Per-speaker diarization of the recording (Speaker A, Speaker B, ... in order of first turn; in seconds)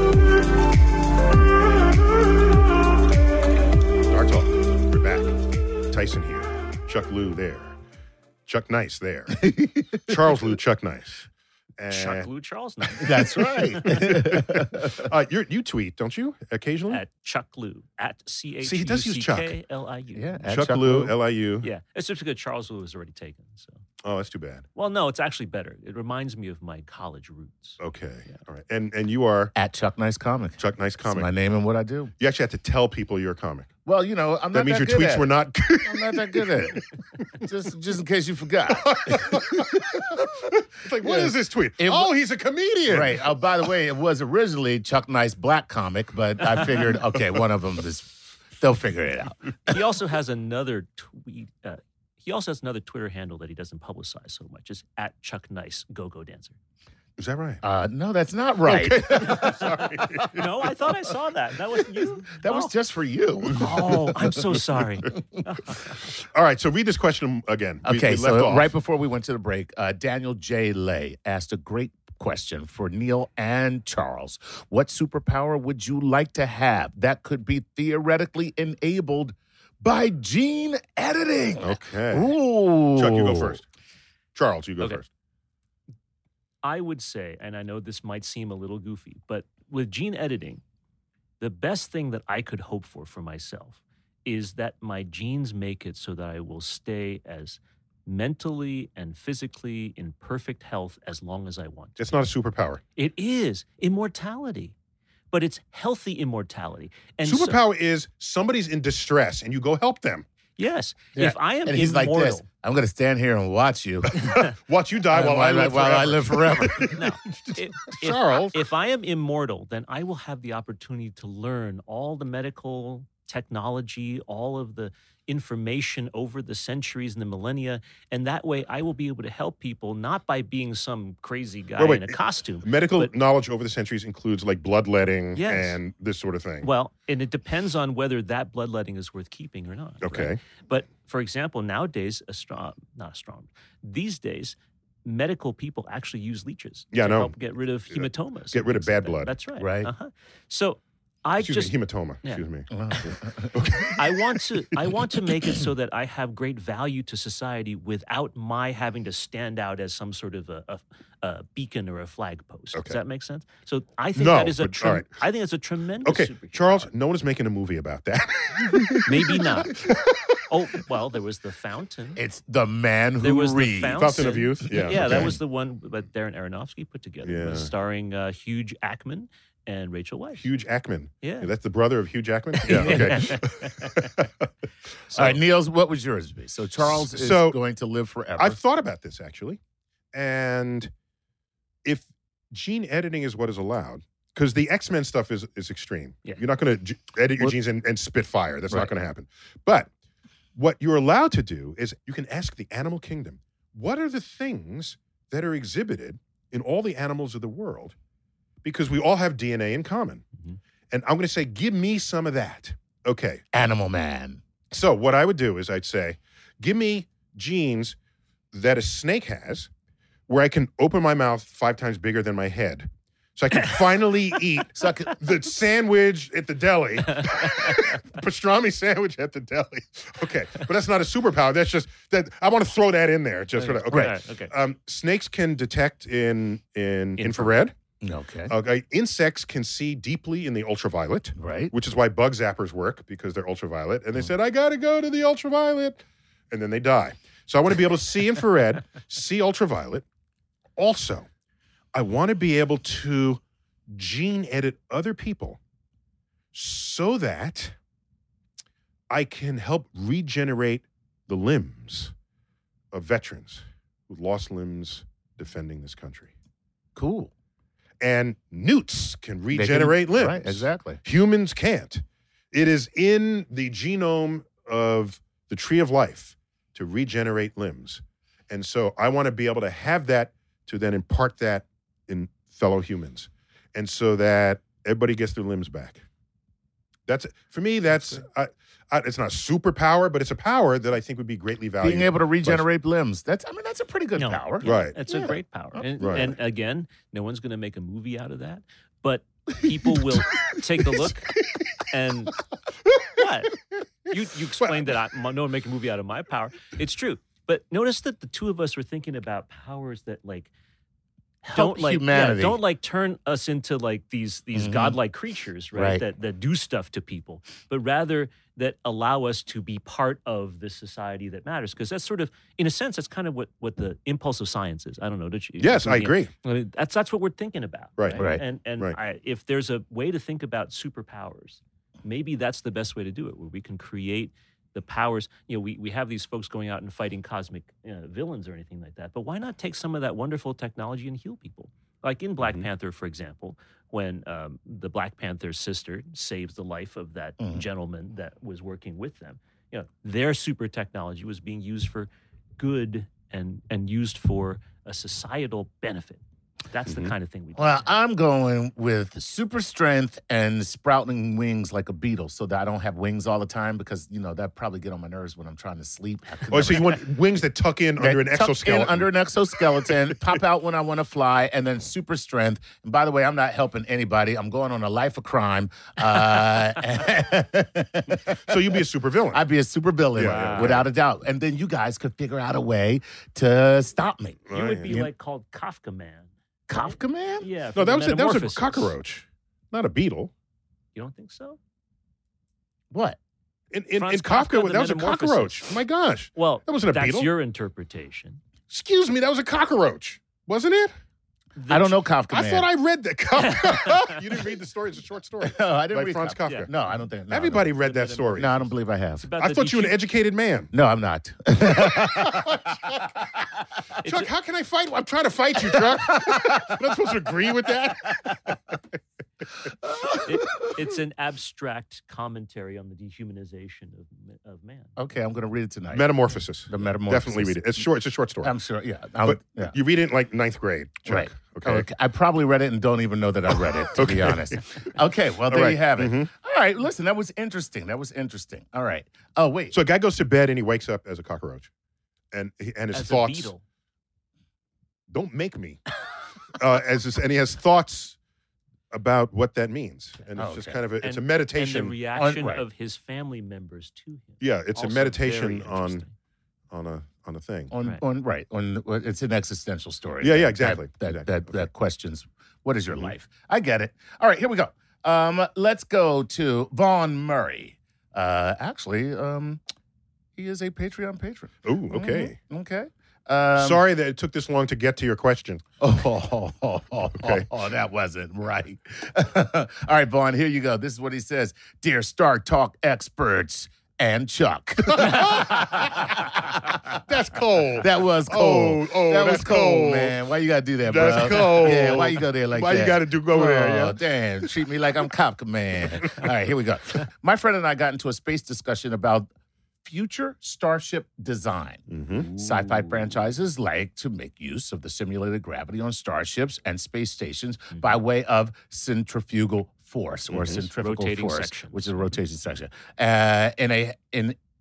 Speaker A: 4.1-5.3, 5.9-7.8, 8.5-9.4, 10.0-11.3, 11.8-12.3, 13.6-17.0, 18.6-19.5, 20.4-21.7, 24.0-24.7, 27.8-29.5, 30.6-31.3, 32.2-33.7, 34.5-36.8, 38.7-43.3, 57.2-57.6, 58.6-60.6, 63.5-64.0, 66.0-68.7, 81.6-82.4, 83.0-83.6, 84.3-85.1, 102.0-102.8, 107.2-110.3, 114.6-118.6, 131.8-136.7, 140.0-140.4, 146.9-147.3, 147.9-149.3, 151.4-154.0, 164.2-165.1, 166.0-170.2, 173.9-175.3, 177.2-177.7, 180.4-184.5, 185.1-185.4, 186.8-187.6, 188.4-189.6, 190.1-190.9, 191.8-199.9, 200.6-207.9, 208.6-210.2, 210.9-213.4, 214.7-218.0, 218.5-219.7, 220.3-237.8, 238.5-250.1, 250.8-251.3, 251.9-255.6, 256.5-257.8, 259.1-262.1, 262.9-266.3, 268.0-286.0, 287.1-292.7, 294.6-295.0, 296.0-296.3, 304.6-304.9, 325.6-326.3, 328.0-328.2, 356.9-357.1, 366.5-369.1, 378.4-379.4, 380.1-380.8, 384.5-385.1, 387.8-390.3, 393.7-397.3, 398.7-400.9, 402.3-406.7, 407.3-408.6, 409.4-410.7, 411.7-412.9, 414.1-418.8, 425.9-428.5, 429.2-431.9, 433.9-434.6, 435.5-436.3, 439.7-441.7, 442.3-443.5, 445.1-445.8, 446.5-448.2, 448.9-452.0, 454.4-456.0, 456.7-457.7, 460.2-461.7, 471.6-472.3, 473.6-475.6, 477.2-477.5, 484.9-490.2, 490.9-494.0, 501.9-502.3, 510.3-510.7
Speaker B: 9.4-10.2, 12.9-15.1, 20.1-21.1, 29.6-32.1, 33.9-35.3, 35.8-36.8, 37.4-42.1, 42.9-49.8, 57.6-59.7, 62.3-64.6, 67.8-83.6, 111.7-114.5, 115.1-117.0, 149.6-149.9, 152.7-153.8, 172.2-175.4, 182.7-183.4, 185.1-188.6, 213.5-214.4, 224.7-225.2, 233.9-234.2, 238.0-238.5, 241.4-241.7, 267.0-267.3, 269.5-271.0, 291.8-295.4, 311.5-312.6, 314.6-315.0, 315.7-316.1, 328.2-328.4, 347.4-347.7, 357.6-367.0, 368.0-385.1, 386.7-387.5, 392.9-393.2, 401.7-402.7, 405.4-407.7, 408.4-409.2, 410.7-412.6, 415.8-416.8, 419.6-420.8, 425.0-426.1, 426.7-427.9, 428.4-429.8, 431.1-439.8, 450.4-450.8, 452.1-452.6, 457.7-469.6, 470.4-473.8, 475.8-486.9, 487.8-499.3, 499.8-514.4
Speaker C: 11.9-14.0, 16.9-20.3, 21.6-23.8, 24.8-27.8, 49.7-56.5, 60.3-62.7, 63.5-66.0, 86.6-90.6, 91.4-102.0, 103.0-104.7, 105.3-107.6, 110.6-112.5, 116.9-133.1, 135.3-135.8, 136.6-152.4, 153.8-166.9, 169.0-169.8, 170.5-172.2, 173.2-180.5, 181.2-181.5, 182.6-184.1, 227.1-228.0, 233.6-234.5, 237.2-237.6, 287.9-288.2, 294.2-302.4, 303.1-310.5, 311.4-357.9, 380.2-380.9, 384.5-388.9, 390.9-391.6, 394.0-395.7, 396.4-398.4, 401.6-402.0, 403.4-404.2, 407.8-408.7, 409.2-410.0, 414.0-414.3, 420.2-425.0, 442.9-443.6, 451.0-456.1, 510.8-512.1